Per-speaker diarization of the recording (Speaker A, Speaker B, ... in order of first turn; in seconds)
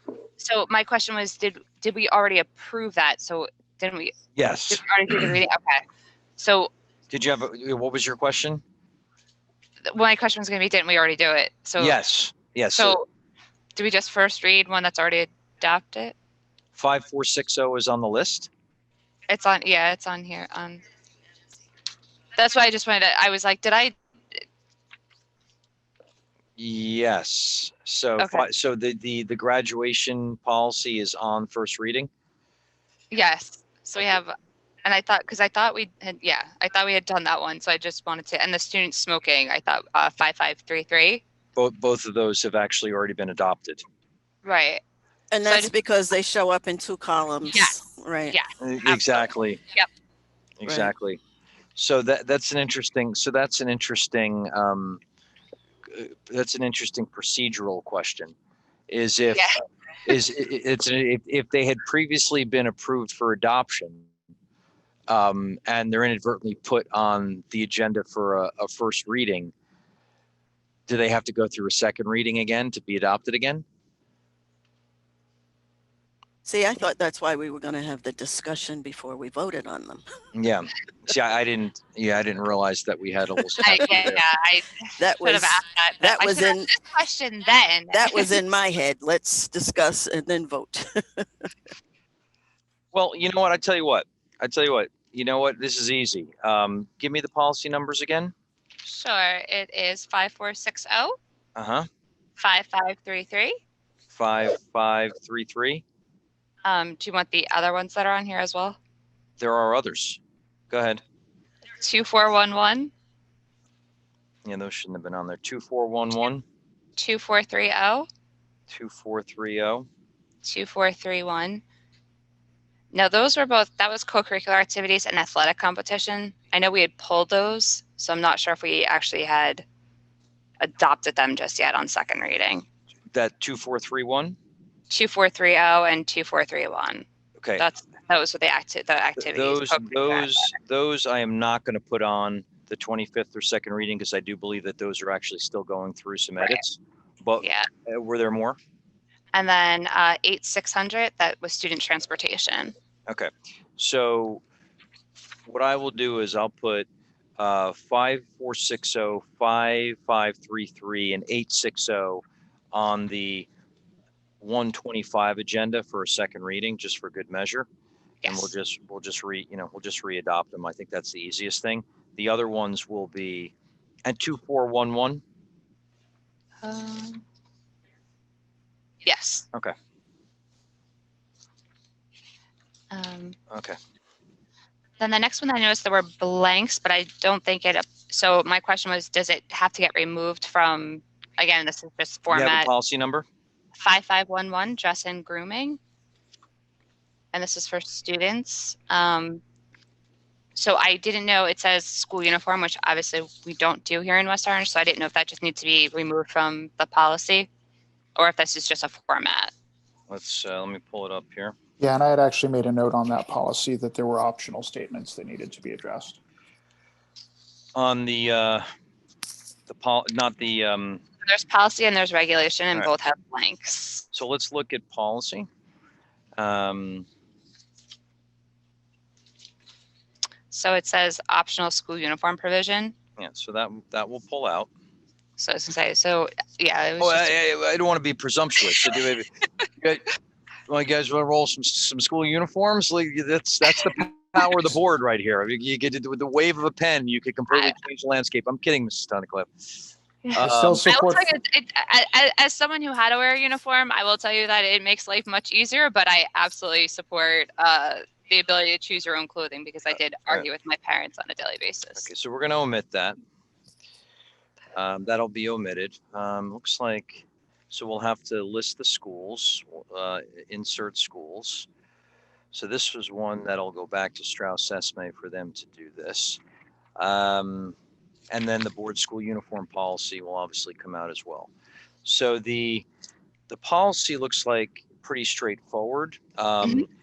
Speaker A: 0.4-5.8, 6.4-6.7, 9.9-12.0, 12.8-13.1, 13.8-16.1, 19.3-20.8, 22.4-23.9, 28.2-28.4, 33.1-41.2, 44.4-44.8, 45.4-45.7, 47.5-49.9, 59.3-59.6, 83.6-88.3, 98.8-101.2, 102.4-103.6, 106.6-108.8, 111.8-112.9, 117.0-118.1, 120.4-121.6, 122.9-129.7, 130.6-132.7, 134.9-137.1, 137.6-140.5, 147.4-147.7, 149.3-152.8, 168.2-168.5, 176.6-177.2, 179.0-179.4, 182.9-183.4, 185.0-192.7, 193.8-195.8, 197.3-199.4, 200.6-207.5, 208.2-209.5, 221.2-224.1, 230.5-232.9, 235.4-237.4, 247.5-247.8, 250.2-262.1, 286.6-286.9
Speaker B: 4.4-4.8, 7.1-8.6, 11.8-13.0, 16.8-18.5, 26.6-32.1, 41.6-43.8, 48.6-49.6, 50.6-51.2, 51.8-55.0, 55.9-58.4, 58.9-59.5, 60.1-64.1, 65.1-69.5, 70.9-73.7, 80.3-84.2, 92.9-98.3, 101.6-101.9, 104.1-105.8, 109.4-111.0, 114.5-116.4, 118.7-119.9, 133.1-134.4, 139.2-148.6, 153.1-154.4, 155.5-156.9, 157.4-163.5, 164.4-167.7, 168.2-173.5, 174.1-175.2, 183.5-183.8, 192.3-193.3, 210.1-211.6, 217.8-218.7, 219.7-221.0, 224.1-225.5, 226.4-227.1, 233.2-234.7, 237.0-239.3, 239.8-240.1, 240.7-249.7, 250.4-251.0, 262.0-263.2, 264.8-271.7, 272.5-276.4, 277.0-277.8, 278.3-281.5, 282.1-282.9, 283.5-286.9
Speaker C: 45.3-48.4, 50.7-50.9, 76.4-80.1, 85.0-86.7, 87.9-91.5
Speaker D: 211.8-216.2, 250.3-251.3